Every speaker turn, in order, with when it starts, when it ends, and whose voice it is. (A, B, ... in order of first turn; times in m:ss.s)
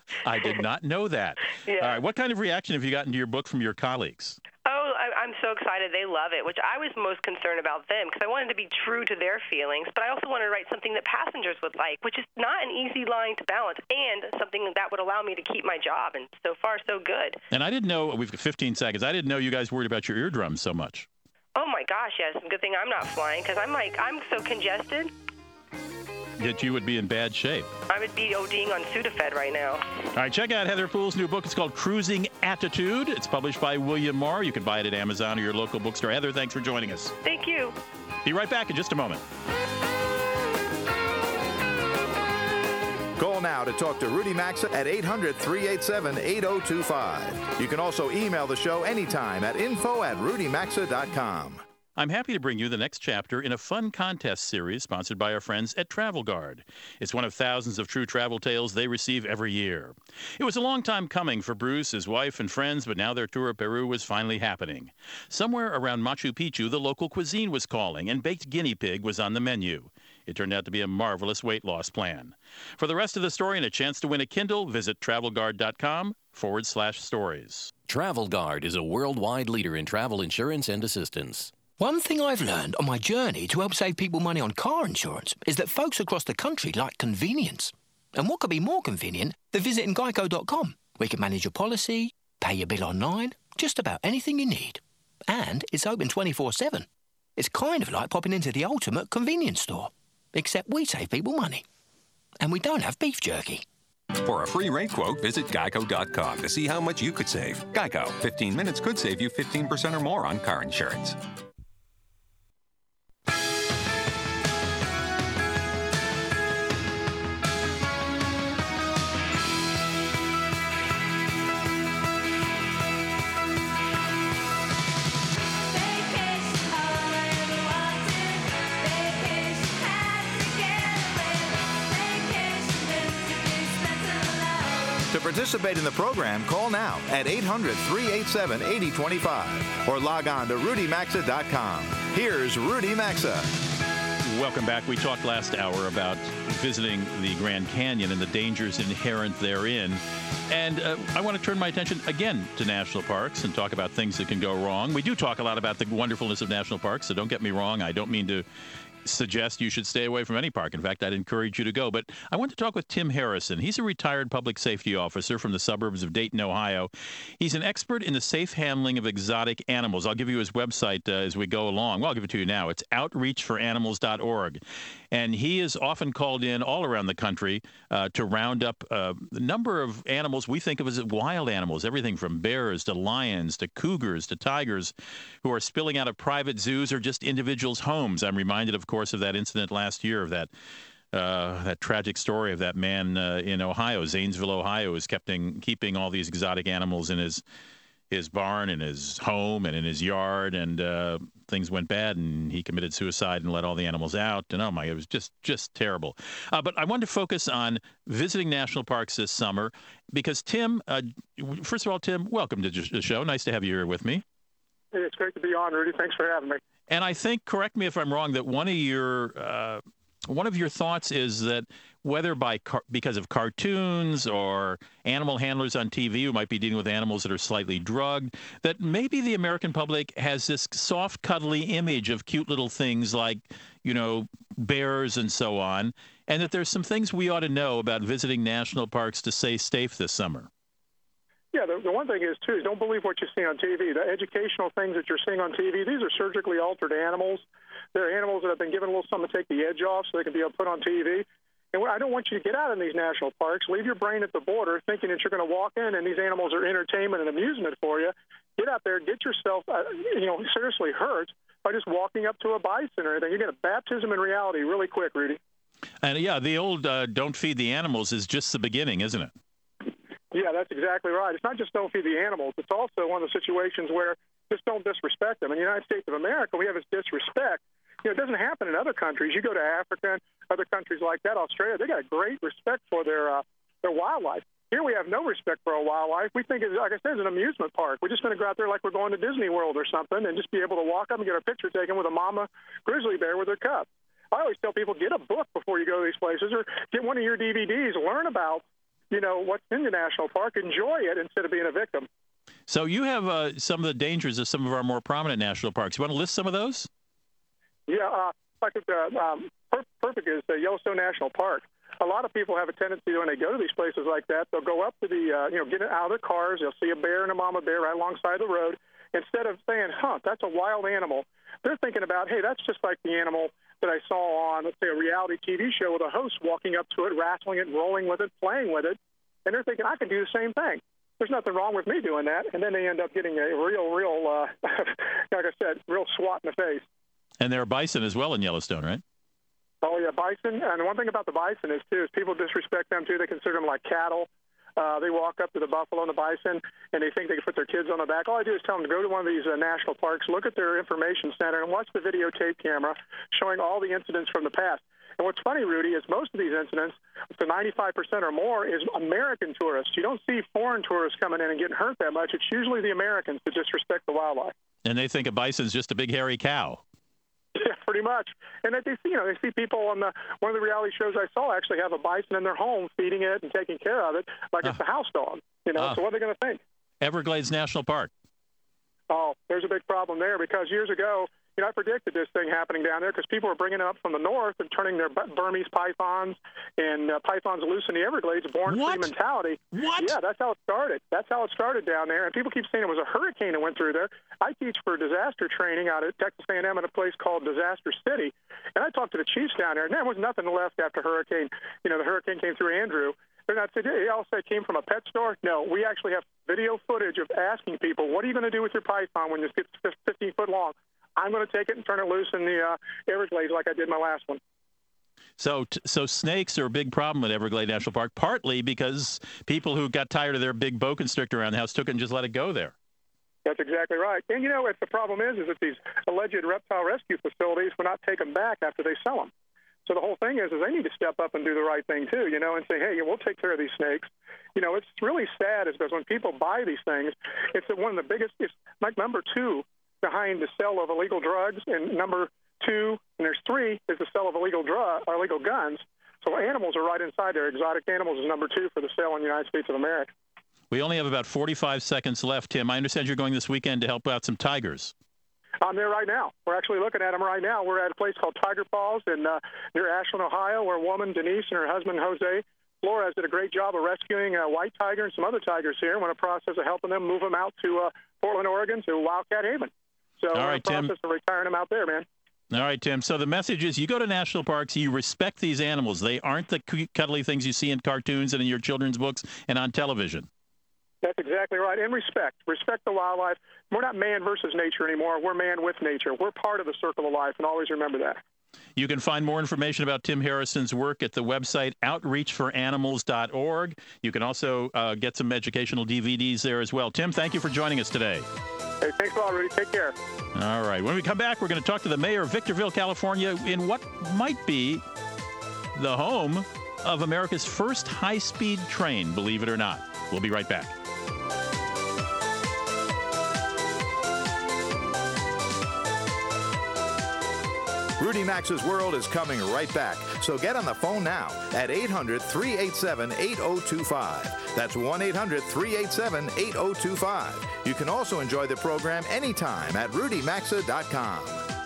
0:00.2-0:04.4 A
0:01.6-0:02.0 B
0:04.6-0:17.4 B
0:17.5-0:21.1 A
0:21.6-0:25.1 B
0:26.4-0:27.7 A
0:27.9-0:29.8 B
0:30.2-0:37.1 A
0:37.2-0:37.8 B
0:38.2-0:39.2 A
0:43.2-0:51.6 C
0:52.0-1:17.7 A
1:17.9-1:21.5 D
1:21.8-1:41.6 E
1:42.4-1:43.6 E
1:44.2-1:51.2 F
2:05.7-2:14.6 B
2:15.1-2:23.5 C
2:24.3-2:38.5 A
2:39.0-2:54.6 A
2:55.1-3:10.5 A
3:11.1-3:17.4 A
3:18.1-3:34.2 A
3:34.9-3:36.6 G
3:36.9-4:00.5 A
4:01.5-4:25.4 G
4:26.0-4:29.3 A
4:30.3-5:02.1 G
5:02.7-5:06.9 A
5:07.9-5:36.8 G
5:37.4-5:39.0 A
5:39.8-6:04.5 G
6:04.8-6:06.8 A
6:07.6-6:16.6 G
6:17.0-6:18.1 A
6:19.1-6:54.4 G
6:28.7-6:29.1 A
6:29.7-6:30.2 A
6:55.4-7:02.7 A
7:03.4-7:09.3 G
7:09.9-7:30.1 G
7:30.7-7:34.9 A
7:35.6-7:52.1 G
7:50.3-7:50.9 A
7:52.5-8:00.3 A
8:01.0-8:08.2 G
8:08.8-8:18.3 A
8:18.8-8:20.0 G
8:20.4-8:24.8 A
8:25.8-8:30.7 A
8:38.0-8:51.4 C